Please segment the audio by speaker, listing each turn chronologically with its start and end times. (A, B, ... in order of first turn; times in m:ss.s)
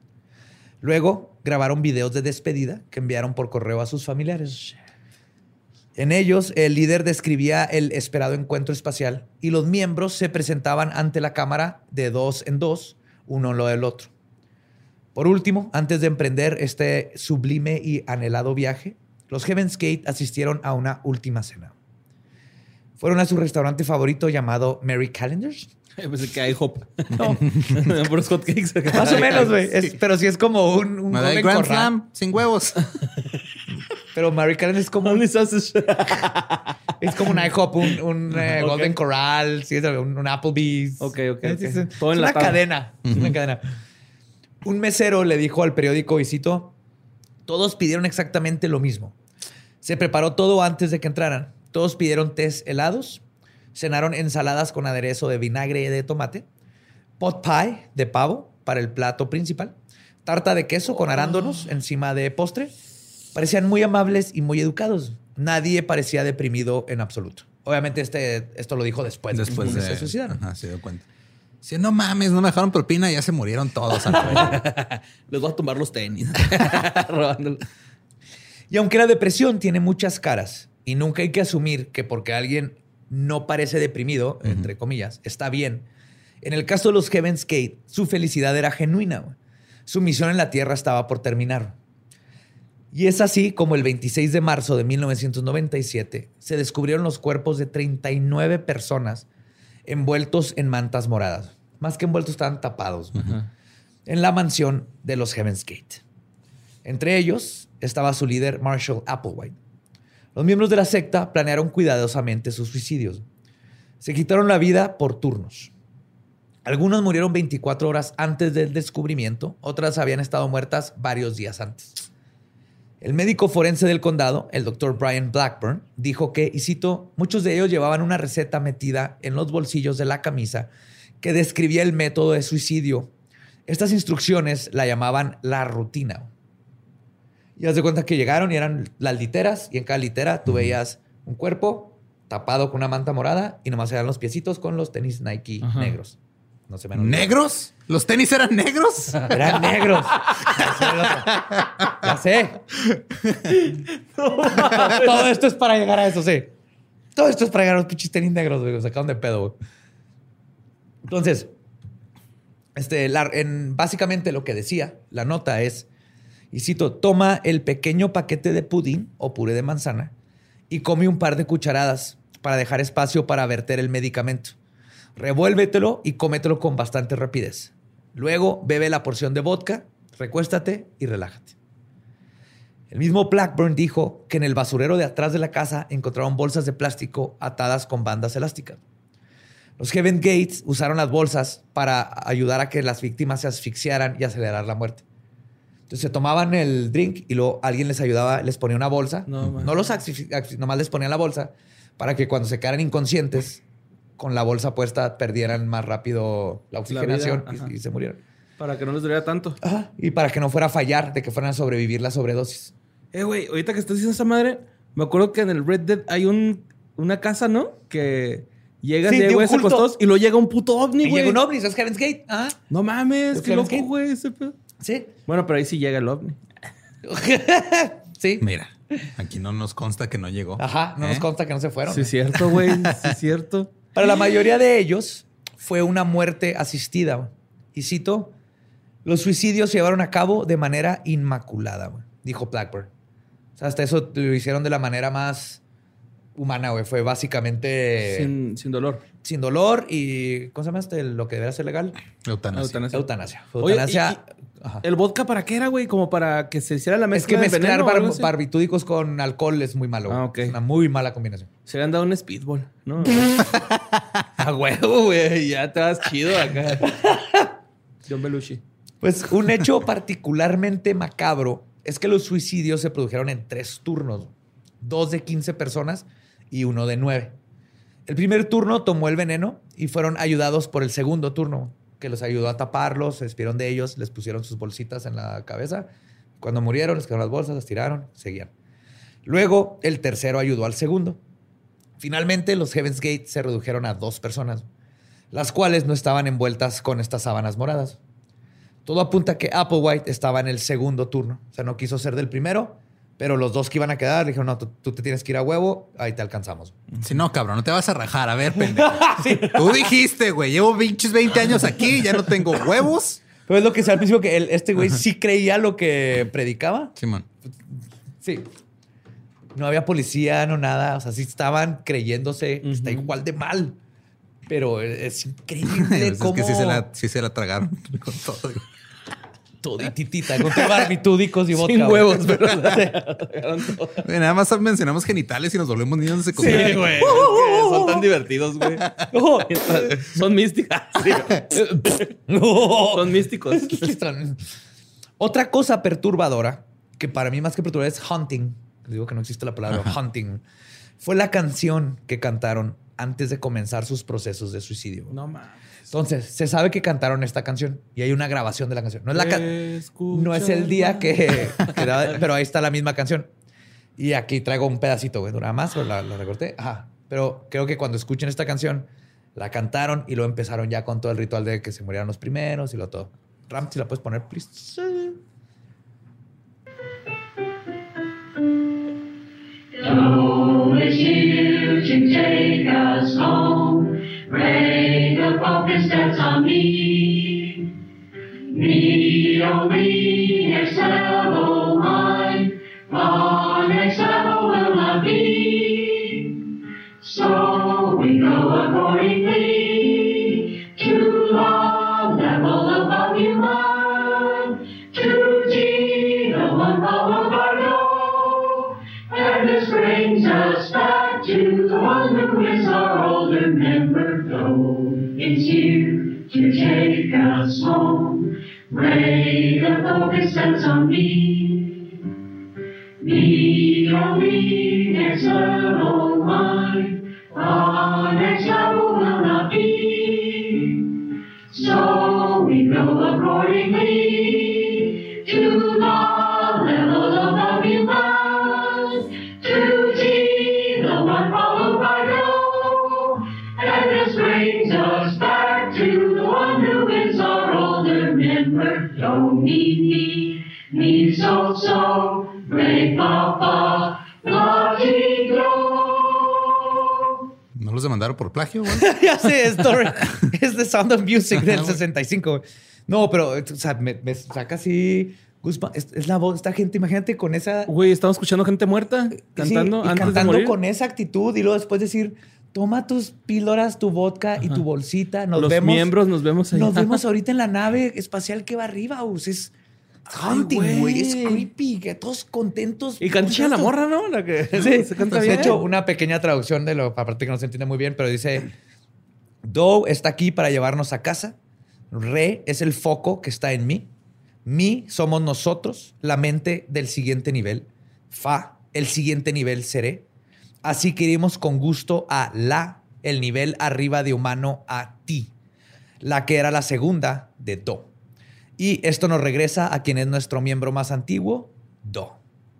0:00.8-0:04.8 A
0:06.0-0:14.1 A
0:15.1-0:21.7 A
0:23.0-0:25.7 A
0:26.0-0:29.5 B
0:27.1-0:27.9 C
0:28.9-0:29.9 C
0:28.9-0:32.0 A
0:31.1-0:33.0 C
0:34.1-0:35.2 A
0:35.0-0:36.7 B
0:37.0-0:43.6 A
0:37.2-0:39.0 B
0:41.0-0:42.6 B
0:43.1-0:43.4 C
0:44.6-0:46.7 A
0:47.4-0:49.1 A
0:49.8-0:53.2 A
0:53.7-0:56.4 A
0:57.2-1:02.7 A
1:03.3-1:10.4 A
1:09.3-1:11.0 C
1:09.5-1:09.8 B
1:11.6-1:14.6 C
1:14.1-1:17.6 B
1:18.7-1:25.8 A
1:24.4-1:24.7 C
1:26.4-1:29.4 A
1:29.9-1:31.8 A
1:32.9-1:39.2 A
1:39.8-1:43.4 A
1:44.0-1:46.0 A
1:46.8-1:49.6 A
1:50.3-1:53.2 A
1:54.0-1:55.7 A
1:56.6-2:02.1 A
2:03.0-2:10.7 A
2:11.2-2:13.1 A
2:13.7-2:16.3 A
2:17.6-2:26.2 A
2:20.4-2:20.8 C
2:25.6-2:26.0 B
2:26.7-2:27.3 A
2:26.9-2:29.6 C
2:29.3-2:32.6 A
2:29.4-2:30.4 B
2:30.6-2:31.9 C
2:33.5-2:35.3 B
2:34.5-2:36.5 A
2:37.1-2:39.6 A
2:41.0-2:41.5 A
2:42.8-2:45.9 A
2:46.5-2:50.1 A
2:50.7-2:54.5 A
2:55.2-3:01.5 A
3:02.9-3:08.8 A
3:09.8-3:15.0 A
3:15.9-3:23.6 A
3:19.3-3:19.7 B
3:24.2-3:28.2 A
3:26.9-3:27.7 B
3:28.6-3:29.6 B
3:29.6-3:32.7 A
3:33.1-3:41.4 B
3:39.0-3:39.9 A
3:41.0-3:42.6 A
3:42.7-3:44.6 B
3:43.3-3:43.9 A
3:44.8-3:45.1 A
3:45.3-3:46.4 B
3:47.0-3:48.5 A
3:48.4-3:51.3 C
3:50.6-3:52.5 A
3:51.9-3:53.7 B
3:52.7-3:53.1 C
3:53.9-3:58.3 A
3:59.0-4:02.9 A
4:03.6-4:05.6 A
4:06.4-4:08.3 A
4:08.0-4:09.0 B
4:09.2-4:12.0 A
4:12.2-4:12.8 C
4:12.5-4:13.1 B
4:12.9-4:14.8 A
4:13.6-4:14.2 B
4:14.8-4:18.3 B
4:17.1-4:21.5 A
4:20.1-4:20.6 B
4:21.6-4:23.5 B
4:24.4-4:26.9 B
4:26.8-4:27.5 A
4:28.1-4:28.6 B
4:29.0-4:37.4 A
4:38.0-4:45.9 A
4:46.4-4:48.5 A
4:49.2-4:51.2 A
4:52.0-4:54.6 A
4:55.3-4:58.0 A
4:58.8-5:06.8 A
5:07.0-5:13.2 C
5:08.6-5:09.9 A
5:13.5-5:16.9 A
5:17.0-5:17.2 C
5:18.2-5:18.5 A
5:19.5-5:23.8 A
5:22.6-5:23.1 B
5:24.5-5:26.8 A
5:25.6-5:28.6 C
5:29.6-5:32.8 A
5:30.5-5:30.8 B
5:31.5-5:34.1 B
5:34.0-5:37.3 C
5:36.4-5:38.0 A
5:36.4-5:42.0 B
5:38.8-5:39.1 C
5:39.1-5:40.0 A
5:41.4-5:44.4 A
5:42.6-5:43.9 B
5:45.2-5:50.4 A
5:49.7-5:50.0 C
5:51.0-5:55.1 A
5:55.1-5:55.6 B
5:55.9-5:59.5 A
5:59.1-6:02.2 B
6:00.1-6:03.3 A
6:04.0-6:15.2 A
6:19.7-6:27.7 D
6:28.5-7:02.0 D
7:03.0-7:37.1 D
7:37.5-7:39.0 C
7:38.7-7:47.7 A
7:41.4-7:41.7 C
7:47.7-7:50.6 B
7:49.3-7:55.9 A
7:55.4-7:57.0 B
7:56.5-7:59.5 A
8:00.1-8:03.7 A
8:00.2-8:01.5 B
8:03.0-8:05.6 B
8:04.5-8:08.5 A
8:05.0-8:05.6 C
8:09.4-8:11.4 A
8:11.9-8:13.9 A
8:14.4-8:20.0 A
8:20.6-8:25.3 A
8:26.0-8:27.9 A
8:28.6-8:32.2 A